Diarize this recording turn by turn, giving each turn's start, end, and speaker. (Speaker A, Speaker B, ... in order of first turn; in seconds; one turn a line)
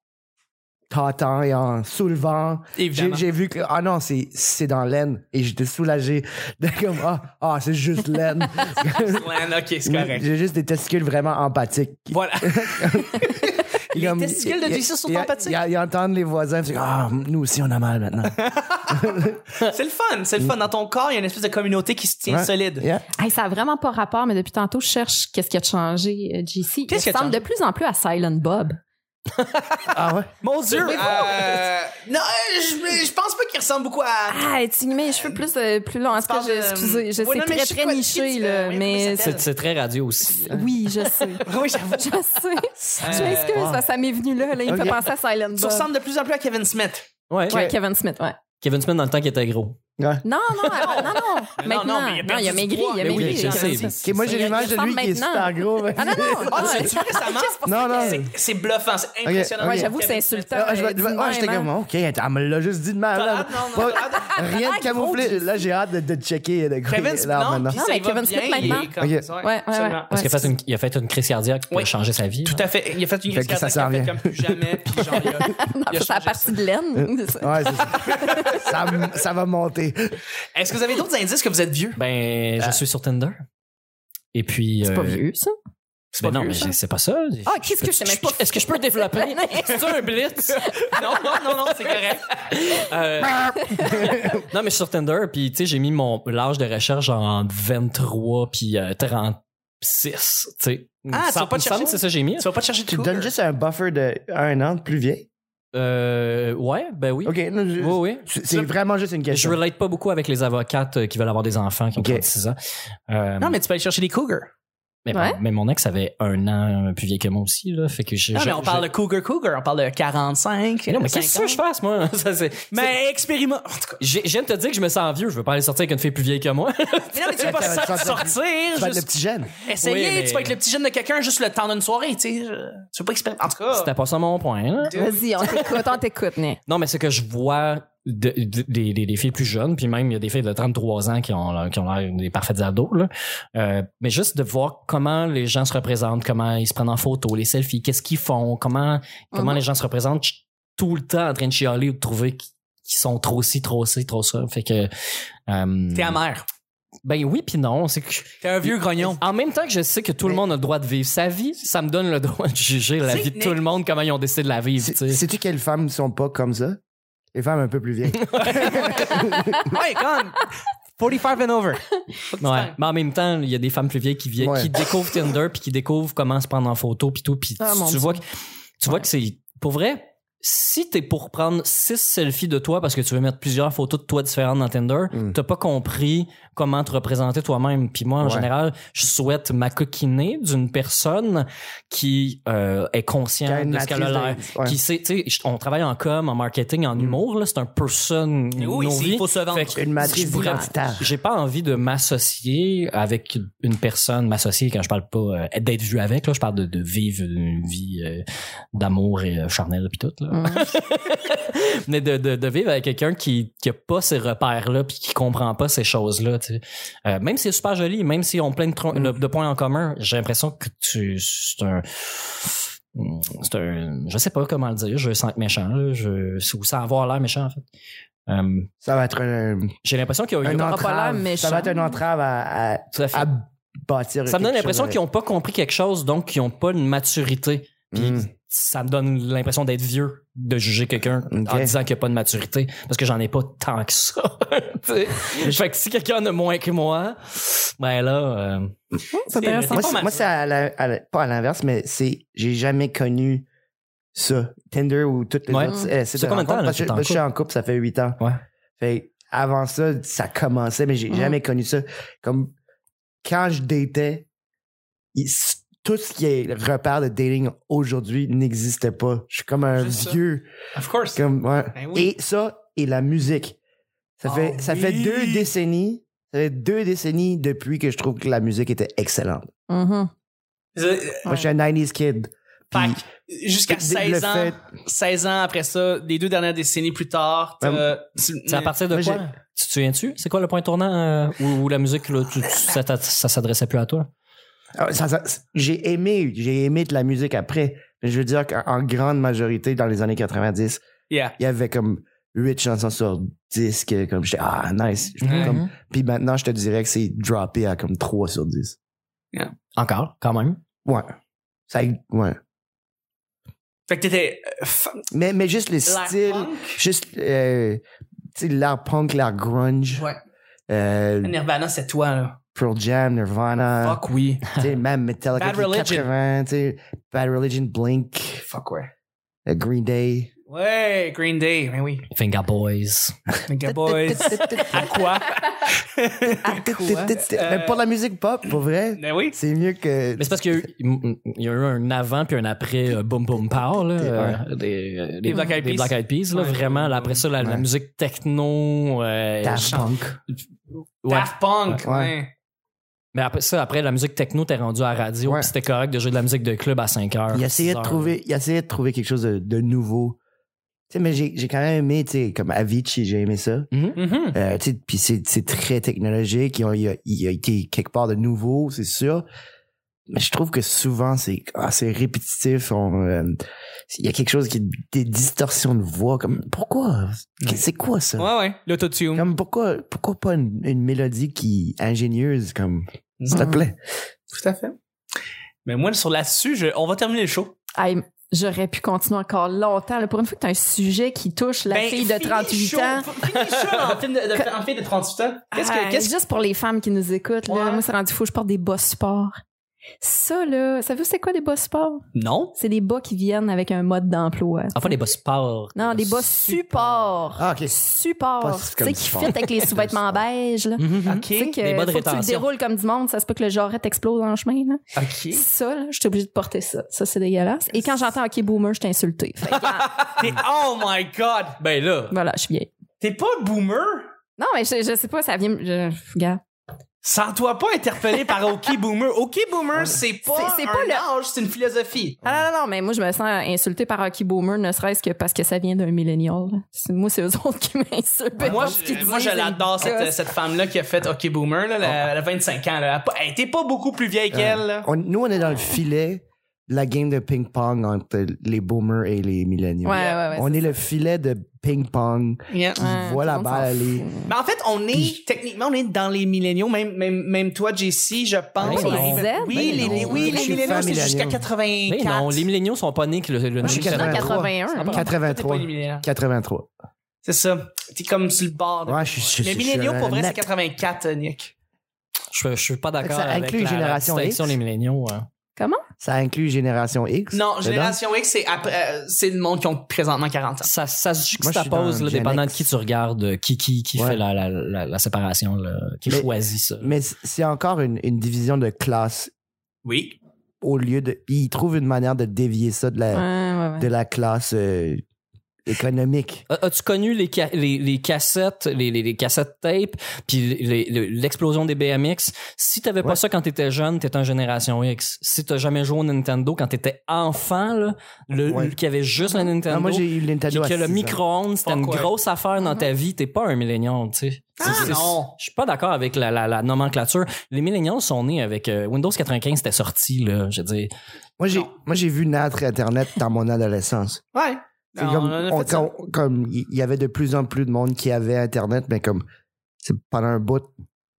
Speaker A: 0.9-18.4
Speaker B: 2.8-3.2
Speaker B: 8.8-10.2
Speaker B: 12.1-15.6
Speaker B: 18.3-22.9
Speaker A: 18.9-19.4
Speaker A: 22.3-23.1
Speaker C: 23.2-28.8
Speaker B: 26.9-27.4
Speaker B: 29.8-34.5
Speaker A: 29.9-30.3
Speaker C: 30.7-31.6
Speaker C: 34.3-39.4
Speaker B: 36.1-39.5
Speaker D: 39.2-40.7
Speaker C: 40.4-45.9
Speaker B: 41.4-42.1
Speaker B: 43.0-43.7
Speaker A: 43.0-43.8
Speaker A: 44.6-45.0
Speaker B: 45.5-47.1
Speaker D: 47.3-47.7
Speaker C: 47.5-48.4
Speaker D: 48.6-49.8
Speaker A: 50.0-50.2
Speaker C: 50.2-58.2
Speaker B: 50.8-54.0
Speaker D: 53.0-54.1
Speaker A: 54.0-57.0
Speaker B: 56.5-60.5
Speaker A: 57.6-58.3
Speaker A: 59.2-59.9
Speaker C: 59.6-61.7
Speaker A: 60.5-67.8
Speaker B: 63.1-64.5
Speaker C: 64.1-65.5
Speaker B: 66.9-70.3
Speaker C: 67.7-68.9
Speaker A: 68.6-69.2
Speaker C: 69.4-70.5
Speaker D: 70.1-72.6
Speaker B: 72.5-76.6
Speaker A: 73.3-75.2
Speaker C: 75.4-78.6
Speaker A: 77.0-80.2
Speaker B: 78.1-78.7
Speaker B: 80.5-82.0
Speaker D: 82.0-83.4
Speaker D: 84.3-85.2
Speaker C: 84.8-85.5
Speaker B: 86.1-86.7
Speaker D: 86.2-102.5
Speaker C: 87.5-91.0
Speaker B: 90.9-92.3
Speaker C: 93.6-94.2
Speaker A: 93.8-94.4
Speaker B: 101.1-103.3
Speaker A: 102.9-105.3
Speaker D: 105.7-108.2
Speaker A: 107.2-109.6
Speaker D: 109.3-112.6
Speaker A: 112.0-112.2
Speaker D: 113.1-113.6
Speaker B: 113.4-114.5
Speaker D: 115.0-118.9
Speaker C: 115.1-115.4
Speaker B: 118.3-121.6
Speaker D: 120.9-122.9
Speaker B: 122.7-124.0
Speaker D: 124.0-128.1
Speaker B: 127.1-129.1
Speaker A: 127.4-129.5
Speaker B: 129.6-133.9
Speaker D: 129.8-130.5
Speaker D: 133.7-135.8
Speaker B: 134.8-135.6
Speaker C: 134.9-136.6
Speaker D: 136.7-154.9
Speaker C: 149.3-149.6
Speaker D: 155.5-156.2
Speaker B: 155.9-156.4
Speaker D: 157.0-165.2
Speaker B: 158.4-159.2
Speaker B: 163.0-163.6
Speaker A: 164.8-166.8
Speaker A: 167.3-169.8
Speaker D: 168.2-168.9
Speaker B: 168.4-172.8
Speaker D: 172.4-178.2
Speaker A: 174.4-174.7
Speaker C: 177.6-178.2
Speaker D: 178.8-227.6
Speaker A: 188.2-188.5
Speaker A: 193.4-194.8
Speaker B: 198.6-199.8
Speaker A: 199.7-201.1
Speaker C: 200.0-200.7
Speaker C: 210.3-210.7
Speaker D: 228.3-228.7
Speaker A: 228.8-229.8
Speaker D: 229.8-231.5
Speaker A: 230.4-235.0
Speaker C: 230.5-232.0
Speaker D: 232.9-233.3
Speaker D: 234.3-248.8
Speaker A: 237.9-238.3
Speaker A: 241.3-241.7
Speaker C: 249.2-250.0
Speaker B: 249.3-250.2
Speaker A: 249.6-253.5
Speaker A: 254.1-258.2
Speaker D: 255.5-257.2
Speaker A: 258.8-262.5
Speaker A: 263.2-264.3
Speaker A: 265.1-270.5
Speaker B: 269.8-270.2
Speaker B: 270.8-271.2
Speaker A: 271.1-273.6
Speaker B: 271.8-272.1
Speaker A: 274.2-279.5
Speaker B: 274.2-275.5
Speaker C: 279.7-280.1
Speaker B: 280.8-281.3
Speaker A: 281.2-283.0
Speaker B: 282.7-288.8
Speaker A: 283.7-284.6
Speaker A: 287.6-287.9
Speaker D: 288.5-294.1
Speaker A: 288.9-289.2
Speaker A: 294.8-300.8
Speaker B: 301.1-301.3
Speaker A: 301.4-308.8
Speaker D: 305.2-305.7
Speaker B: 305.2-305.5
Speaker D: 309.8-310.6
Speaker A: 310.8-311.1
Speaker A: 311.7-312.4
Speaker B: 313.9-315.0
Speaker A: 315.1-317.8
Speaker B: 315.9-316.8
Speaker A: 318.3-320.1
Speaker A: 320.7-321.4
Speaker B: 321.2-322.4
Speaker A: 322.5-328.5
Speaker B: 323.8-324.5
Speaker B: 325.3-326.1
Speaker B: 328.5-328.9
Speaker A: 329.5-330.3
Speaker B: 330.5-332.1
Speaker D: 332.1-333.2
Speaker B: 333.5-337.8
Speaker A: 333.7-335.0
Speaker C: 333.9-335.4
Speaker A: 336.4-340.4
Speaker C: 336.4-337.2
Speaker B: 339.0-339.4
Speaker D: 340.2-349.9
Speaker A: 343.5-344.4
Speaker B: 345.3-347.2
Speaker C: 345.3-345.6
Speaker A: 347.4-347.7
Speaker A: 349.4-350.2
Speaker D: 351.0-351.8
Speaker B: 351.1-352.3
Speaker A: 351.8-352.1
Speaker D: 353.1-358.1
Speaker A: 355.2-355.5
Speaker A: 357.3-360.2
Speaker A: 360.9-363.7
Speaker D: 363.7-364.3
Speaker B: 364.0-364.3
Speaker A: 364.3-369.2
Speaker A: 370.1-373.4
Speaker A: 373.9-378.3
Speaker B: 378.2-379.3
Speaker A: 379.1-383.8
Speaker B: 383.2-383.5
Speaker C: 383.3-383.6
Speaker B: 384.3-384.8
Speaker B: 385.6-387.6
Speaker C: 387.8-393.1
Speaker B: 391.7-396.1
Speaker D: 393.2-394.0
Speaker C: 395.5-399.4
Speaker B: 397.5-397.8
Speaker C: 400.0-402.0
Speaker B: 402.1-402.6
Speaker C: 402.5-404.9
Speaker D: 404.7-406.5
Speaker C: 405.8-420.0
Speaker B: 406.5-407.1
Speaker A: 407.4-407.7
Speaker A: 408.4-410.2
Speaker D: 410.8-412.5
Speaker B: 410.9-411.6
Speaker B: 415.0-415.4
Speaker B: 419.5-421.6
Speaker D: 421.6-422.1
Speaker C: 422.1-422.7
Speaker B: 423.0-424.1
Speaker C: 424.4-426.4
Speaker B: 427.0-432.2
Speaker C: 430.2-431.0
Speaker C: 432.2-440.2
Speaker B: 438.4-444.9
Speaker A: 444.3-454.1
Speaker C: 449.8-450.7
Speaker B: 449.9-450.2
Speaker B: 452.5-452.8
Speaker C: 452.8-454.3
Speaker B: 454.3-462.5
Speaker D: 458.6-460.5
Speaker C: 458.6-460.8
Speaker A: 459.7-461.4
Speaker D: 461.9-464.4
Speaker A: 463.6-466.7
Speaker C: 463.6-465.0
Speaker B: 464.8-466.1
Speaker B: 467.2-471.5
Speaker A: 468.9-470.4
Speaker D: 472.3-475.3
Speaker A: 473.0-474.6
Speaker C: 475.6-475.8
Speaker A: 476.0-478.0
Speaker B: 477.3-480.7
Speaker D: 480.6-486.9
Speaker A: 481.4-482.7
Speaker A: 486.1-489.3
Speaker B: 489.8-490.2
Speaker A: 490.6-493.2
Speaker C: 493.1-493.9
Speaker A: 493.8-495.0
Speaker A: 495.7-496.5
Speaker D: 496.5-520.9
Speaker A: 508.5-508.8
Speaker A: 509.6-511.2
Speaker B: 511.6-512.1
Speaker B: 514.6-515.4
Speaker A: 514.6-514.9
Speaker A: 521.4-524.2
Speaker B: 524.3-525.9
Speaker A: 525.0-529.2
Speaker A: 529.8-530.7